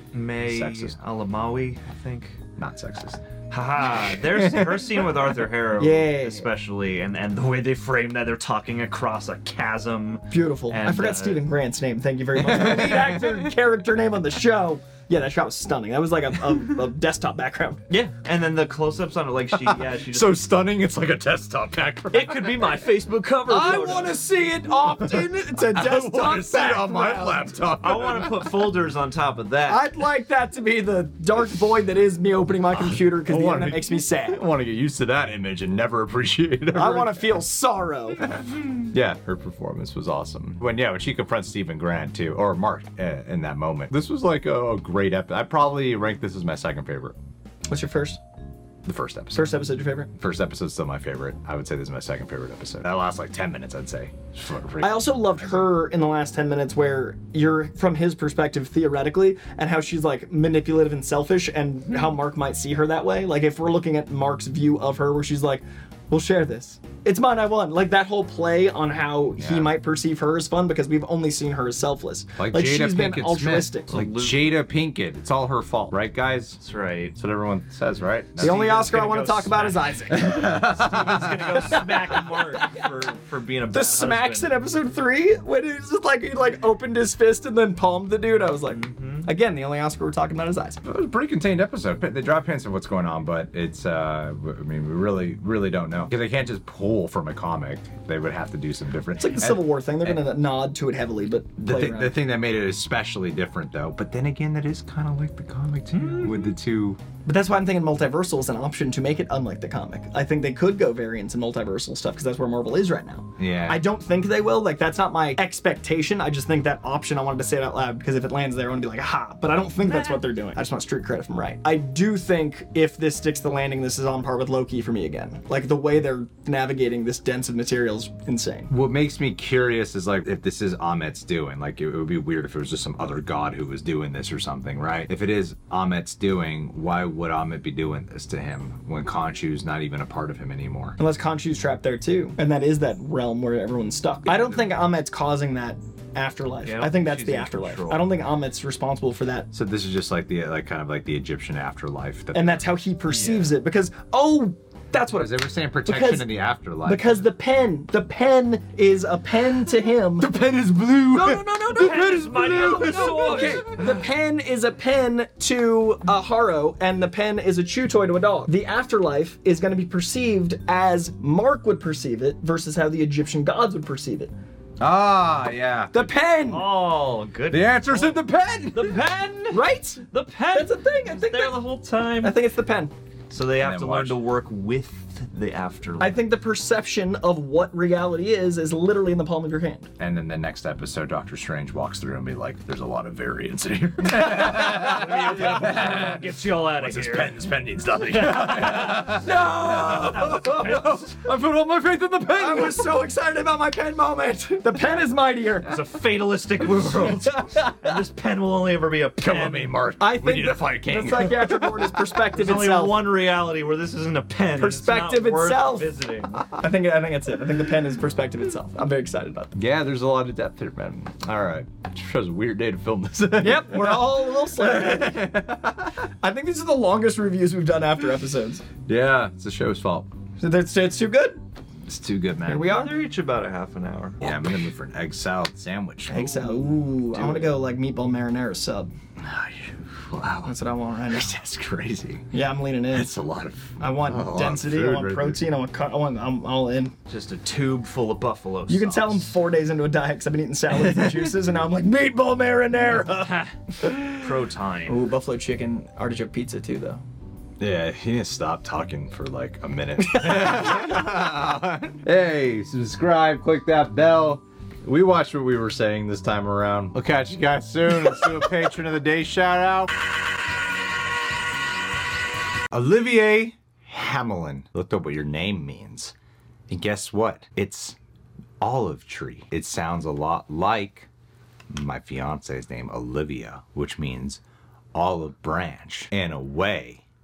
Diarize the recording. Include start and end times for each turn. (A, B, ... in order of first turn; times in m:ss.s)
0:00.1-0:02.4 A
0:00.4-0:01.0 B
0:02.6-0:03.2 B
0:03.5-0:11.4 A
0:04.1-0:04.9 B
0:05.8-0:06.5 C
0:10.3-0:17.8 C
0:12.4-0:13.5 B
0:17.9-0:20.4 A
0:19.6-0:22.7 B
0:22.1-0:24.2 A
0:23.5-0:27.6 C
0:25.0-0:28.5 B
0:27.8-0:29.8 A
0:29.7-0:34.4 C
0:32.7-0:37.4 B
0:36.7-0:38.3 C
0:38.2-0:47.2 B
0:47.7-0:48.2 C
0:48.8-0:49.6 B
0:49.3-0:50.1 C
0:50.2-0:55.7 B
0:54.8-1:13.9 C
1:09.4-1:09.7 B
1:12.4-1:16.6 B
1:13.9-1:14.5 A
1:16.6-1:17.2 A
1:17.2-1:18.7 B
1:18.4-1:24.5 A
1:18.4-1:20.5 C
1:20.1-1:21.8 B
1:21.6-1:22.9 C
1:23.7-1:30.8 C
1:28.7-1:29.3 A
1:30.8-1:40.2 B
1:39.2-1:42.1 C
1:41.6-1:47.0 B
1:45.9-1:46.5 A
1:47.3-2:08.7 C
1:53.4-1:53.8 B
1:59.9-2:00.2 A
2:08.7-2:21.0 B
2:21.0-2:29.5 C
2:24.3-2:24.7 B
2:26.6-2:28.1 A
2:29.5-2:32.7 B
2:32.3-2:36.3 C
2:33.1-2:33.5 A
2:35.2-2:37.2 B
2:36.8-2:40.3 C
2:40.2-2:43.8 B
2:41.1-2:43.9 A
2:42.4-2:54.3 C
2:54.8-2:56.1 B
2:55.9-2:56.7 C
2:56.5-2:58.2 A
2:57.5-2:59.0 B
2:58.7-3:02.4 A
2:59.5-3:01.6 C
3:02.2-3:02.9 C
3:03.3-3:06.2 A
3:03.6-3:04.2 B
3:06.0-3:09.9 C
3:10.0-3:22.8 B
3:14.3-3:17.4 A
3:18.1-3:22.7 A
3:18.6-3:20.9 C
3:22.4-3:25.7 C
3:25.7-3:29.8 A
3:27.4-3:27.8 C
3:29.2-3:32.0 B
3:30.0-3:33.1 C
3:32.3-3:36.4 A
3:34.6-3:39.5 C
3:39.6-3:46.0 B
3:43.4-3:45.3 C
3:46.2-3:48.7 C
3:48.9-3:50.1 B
3:50.4-3:51.4 C
3:51.9-3:52.7 B
3:52.5-3:53.0 C
3:52.6-3:54.3 A
3:54.2-3:57.6 B
3:56.1-3:58.9 C
3:59.2-4:00.5 B
4:00.4-4:01.3 C
4:01.1-4:02.3 B
4:02.3-4:03.1 C
4:02.9-4:05.4 B
4:03.8-4:06.9 C
4:07.1-4:09.3 A
4:08.7-4:14.0 C
4:10.9-4:11.3 B
4:14.1-4:15.0 A
4:14.9-4:17.0 C
4:17.6-4:29.9 B
4:20.0-4:20.9 C
4:32.7-4:36.1 B
4:36.7-4:38.0 B
4:38.6-4:41.1 B
4:41.7-4:44.4 B
4:44.9-4:47.0 B